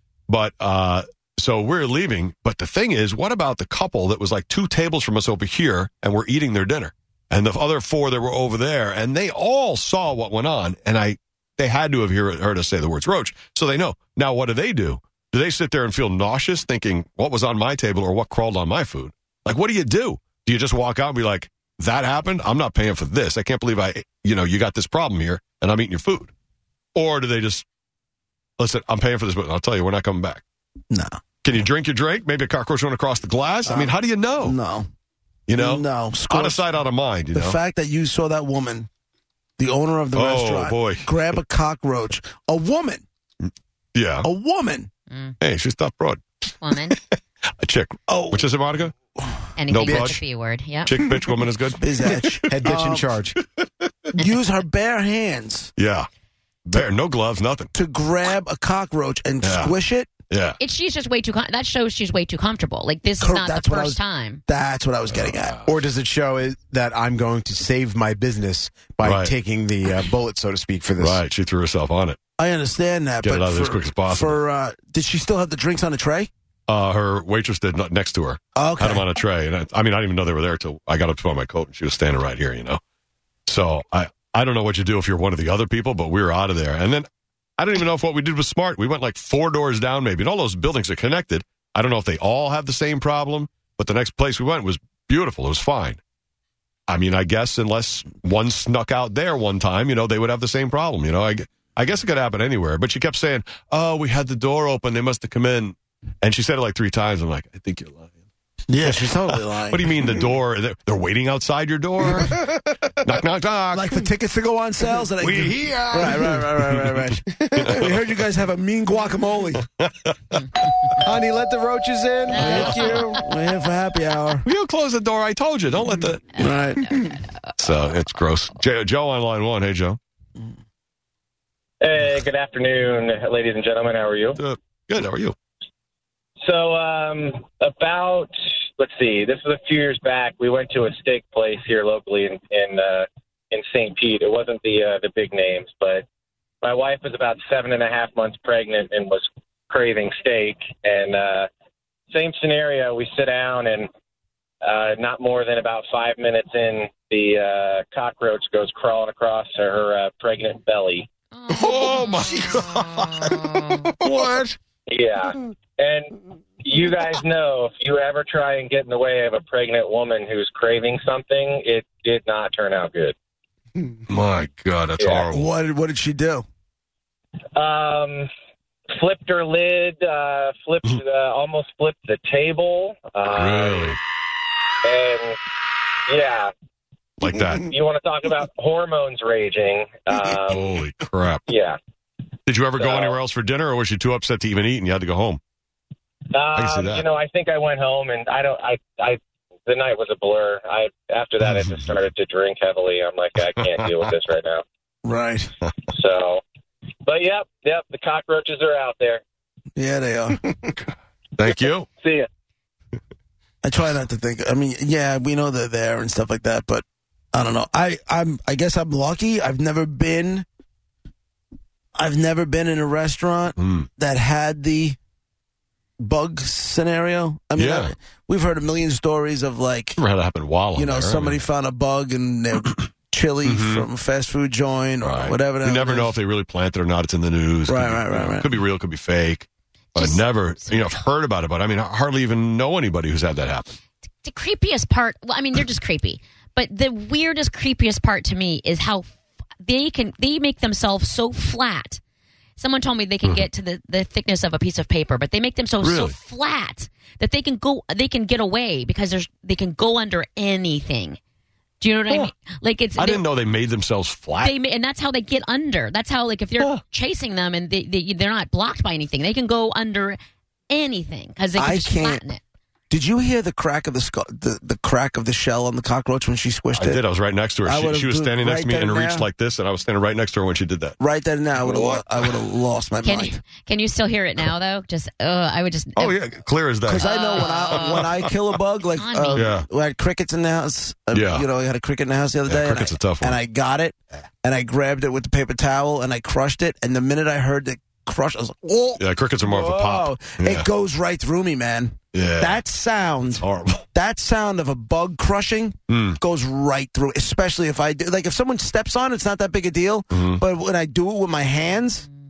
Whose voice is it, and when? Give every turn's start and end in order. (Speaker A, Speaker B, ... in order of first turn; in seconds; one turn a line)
Speaker A: 0.3-26.3
Speaker A: 26.9-27.6
Speaker A: 28.6-30.4
Speaker A: 31.4-34.6
Speaker B: 33.6-34.9
Speaker A: 35.5-37.6
Speaker B: 35.5-36.7
Speaker B: 37.3-38.9
Speaker B: 39.6-43.0
Speaker A: 40.1-41.4
Speaker A: 43.9-44.3
Speaker B: 44.2-44.9
Speaker C: 45.1-45.4
Speaker A: 45.4-46.2
Speaker C: 46.6-47.0
Speaker A: 46.9-48.9
Speaker B: 48.1-48.5
Speaker C: 49.5-51.0
Speaker A: 49.7-50.2
Speaker A: 50.9-54.2
Speaker B: 51.8-53.1
Speaker D: 52.5-53.4
Speaker B: 54.1-55.7
Speaker A: 55.8-56.1
Speaker A: 56.6-57.7
Speaker B: 57.7-60.1
Speaker A: 59.4-59.7
Speaker A: 60.3-60.6
Speaker C: 60.6-64.4
Speaker B: 63.2-65.6
Speaker A: 65.1-65.7
Speaker D: 65.7-71.2
Speaker A: 69.0-69.3
Speaker A: 71.0-72.2
Speaker B: 72.4-76.3
Speaker A: 73.2-74.4
Speaker A: 76.7-82.8
Speaker B: 78.5-79.0
Speaker A: 83.5-87.1
Speaker A: 87.6-96.0
Speaker A: 96.9-108.2
Speaker B: 108.7-109.9
Speaker A: 108.8-112.4
Speaker A: 113.0-114.1
Speaker B: 113.7-119.6
Speaker A: 115.3-115.5
Speaker D: 115.3-116.0
Speaker A: 116.2-117.0
Speaker A: 117.6-118.1
Speaker A: 119.8-120.4
Speaker B: 121.0-124.4
Speaker D: 121.1-121.4
Speaker C: 122.3-123.2
Speaker A: 122.3-123.0
Speaker A: 124.4-126.5
Speaker B: 126.4-127.2
Speaker C: 126.8-127.2
Speaker A: 127.6-130.0
Speaker E: 131.8-134.4
Speaker A: 134.4-135.3
Speaker E: 136.4-146.0
Speaker E: 146.6-151.5
Speaker E: 152.1-153.9
Speaker E: 154.6-161.1
Speaker C: 161.3-163.9
Speaker A: 161.6-162.8
Speaker A: 164.0-164.5
Speaker E: 164.9-173.1
Speaker A: 174.1-175.5
Speaker B: 175.3-176.4
Speaker E: 177.5-178.3
Speaker E: 179.0-183.9
Speaker A: 183.2-184.0
Speaker E: 184.8-185.3
Speaker E: 186.1-186.5
Speaker A: 187.2-187.7
Speaker E: 187.7-190.6
Speaker A: 190.5-191.4
Speaker E: 191.5-191.8
Speaker A: 192.5-195.4
Speaker E: 192.8-193.2
Speaker E: 196.3-204.6
Speaker A: 196.5-197.1
Speaker A: 201.4-201.9
Speaker A: 203.4-204.1
Speaker B: 205.0-205.5
Speaker E: 205.9-206.4
Speaker E: 207.0-209.2
Speaker B: 209.8-210.4
Speaker A: 210.8-211.9
Speaker B: 213.6-220.4
Speaker B: 221.9-225.0
Speaker A: 223.6-223.9
Speaker B: 226.0-230.0
Speaker A: 227.6-227.9
Speaker A: 230.0-231.4
Speaker B: 230.7-236.1
Speaker A: 233.4-233.9
Speaker A: 235.0-243.8
Speaker B: 237.7-238.5
Speaker C: 239.9-240.9
Speaker C: 244.2-249.1
Speaker C: 249.6-252.0
Speaker C: 252.6-261.2
Speaker A: 255.8-256.1
Speaker C: 261.8-263.3
Speaker A: 263.0-264.5
Speaker C: 264.4-270.2
Speaker C: 270.7-272.4
Speaker B: 271.5-272.2
Speaker B: 272.9-277.0
Speaker A: 276.7-281.0
Speaker B: 277.6-279.3
Speaker B: 281.0-283.4
Speaker A: 281.6-282.4
Speaker C: 283.0-286.1
Speaker A: 286.0-288.3
Speaker B: 286.8-312.1
Speaker C: 287.0-288.1
Speaker C: 288.9-289.4
Speaker A: 289.3-289.7
Speaker A: 291.1-291.5
Speaker A: 292.5-293.4
Speaker A: 299.0-300.7
Speaker A: 302.1-302.6
Speaker A: 303.4-303.9
Speaker A: 305.9-306.2
Speaker A: 310.1-310.4